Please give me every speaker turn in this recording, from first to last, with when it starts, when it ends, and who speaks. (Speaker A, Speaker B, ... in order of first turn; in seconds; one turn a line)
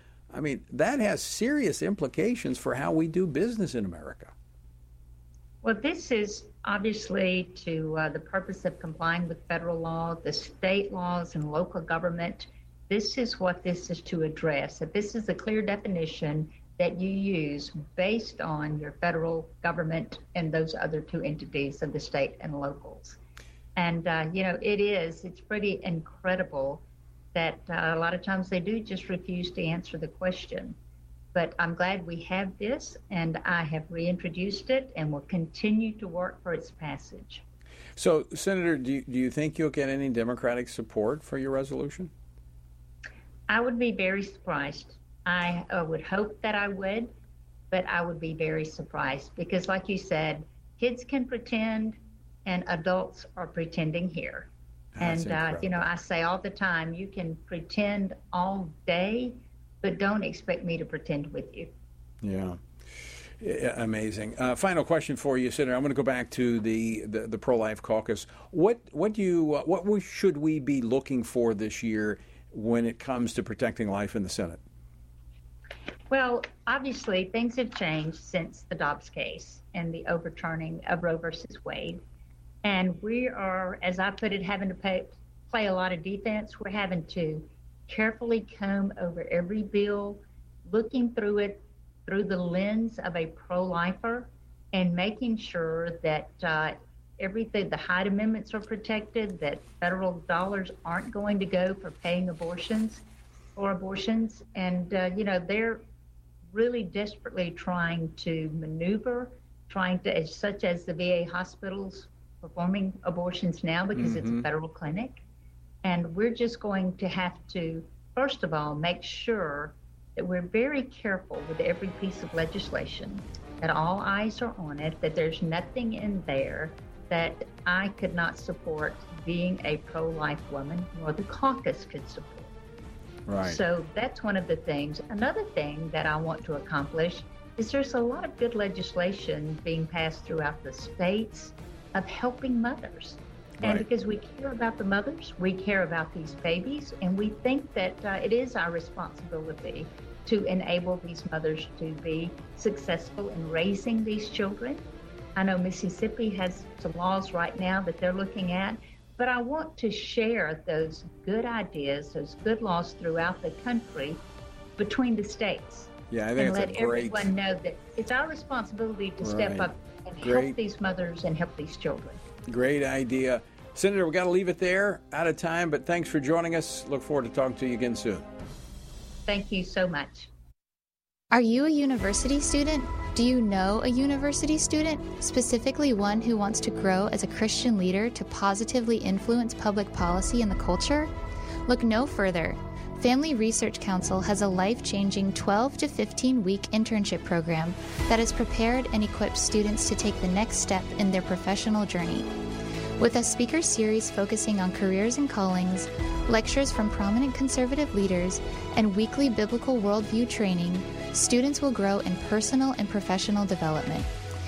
Speaker A: 0.3-4.3
Speaker B: 5.6-23.2
Speaker B: 23.8-26.8
Speaker B: 27.4-30.8
Speaker B: 31.3-37.4
Speaker A: 38.0-42.1
Speaker B: 43.5-47.1
Speaker B: 47.7-54.5
Speaker A: 55.0-55.7
Speaker B: 55.0-61.7
Speaker A: 62.2-62.6
Speaker A: 63.4-74.6
Speaker B: 76.1-82.0
Speaker B: 82.6-103.0
Speaker B: 103.6-105.8
Speaker B: 106.5-115.2
Speaker A: 114.0-114.5
Speaker B: 115.8-132.5
Speaker A: 133.3-133.6
Speaker B: 133.4-154.8
Speaker A: 143.6-143.8
Speaker B: 155.4-164.2
Speaker B: 164.8-172.2
Speaker A: 166.1-167.3
Speaker A: 169.2-170.6
Speaker A: 172.5-178.3
Speaker B: 179.3-180.3
Speaker C: 181.3-191.1
Speaker C: 191.7-202.3
Speaker C: 203.0-214.1